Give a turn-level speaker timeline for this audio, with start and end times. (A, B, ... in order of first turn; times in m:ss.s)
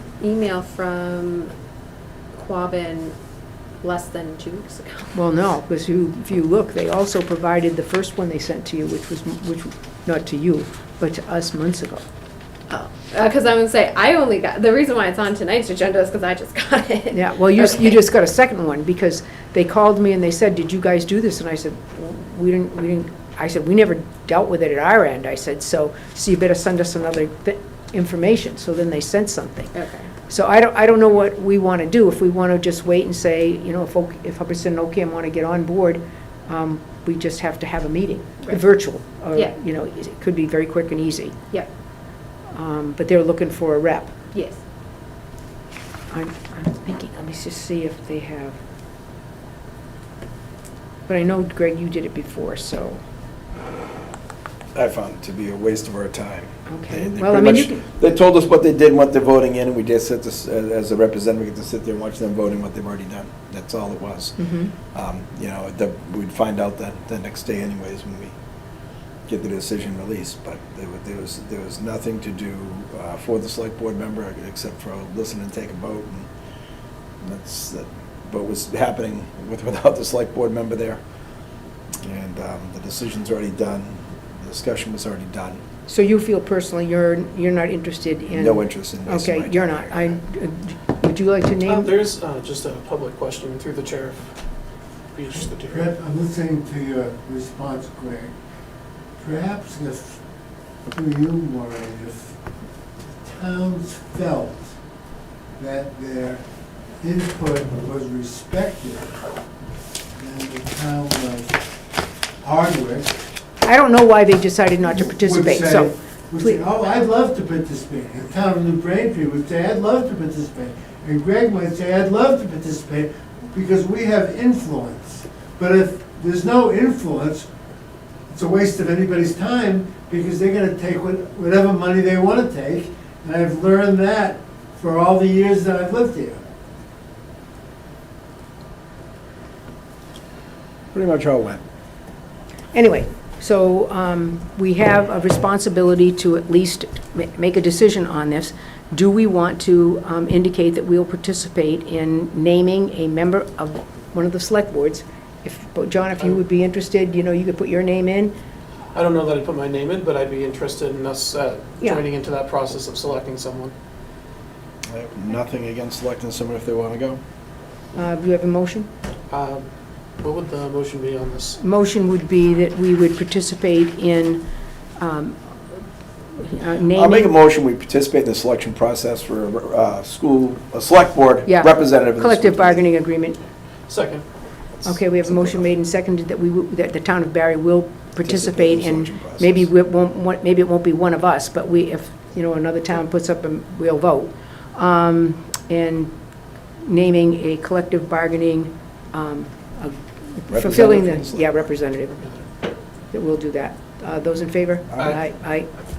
0:00.2-0:01.5 A
0:02.3-0:03.1 A
0:03.8-0:05.2 A
0:05.1-0:12.0 B
0:12.7-0:17.8 A
0:17.1-0:29.7 B
0:29.7-0:30.1 A
0:30.3-0:41.4 B
0:42.5-0:44.1 B
0:44.3-0:44.6 A
0:46.1-0:48.6 B
0:51.1-0:53.0 B
0:54.7-1:08.3 C
0:56.7-0:57.8 B
1:04.4-1:04.7 B
1:09.3-1:16.3 C
1:17.2-1:21.0 C
1:22.0-1:25.6 C
1:25.9-1:31.9 B
1:28.3-1:30.2 C
1:31.6-1:34.3 D
1:35.1-1:35.9 D
1:35.3-1:38.3 E
1:39.2-1:40.2 E
1:40.9-1:42.3 E
1:43.2-1:44.7 E
1:45.6-1:46.4 E
1:47.0-1:49.2 E
1:50.2-1:51.6 E
1:52.4-1:53.2 E
1:53.6-1:56.6 B
1:54.9-2:07.5 E
2:08.3-2:16.4 E
2:20.9-2:21.6 C
2:22.7-2:38.3 B
2:38.9-2:43.7 D
2:44.9-2:47.2 C
2:47.9-2:48.9 B
2:49.3-2:49.6 D
2:50.2-2:51.6 D
2:51.6-2:54.4 B
2:55.0-2:55.4 B
2:56.4-2:57.3 B
2:56.9-3:02.8 C
3:01.4-3:03.4 B
3:03.9-3:04.2 D
3:04.8-3:16.1 B
3:05.2-3:05.6 C
3:08.2-3:09.7 C
3:16.8-3:22.2 B
3:20.5-3:21.6 C
3:23.1-3:25.7 B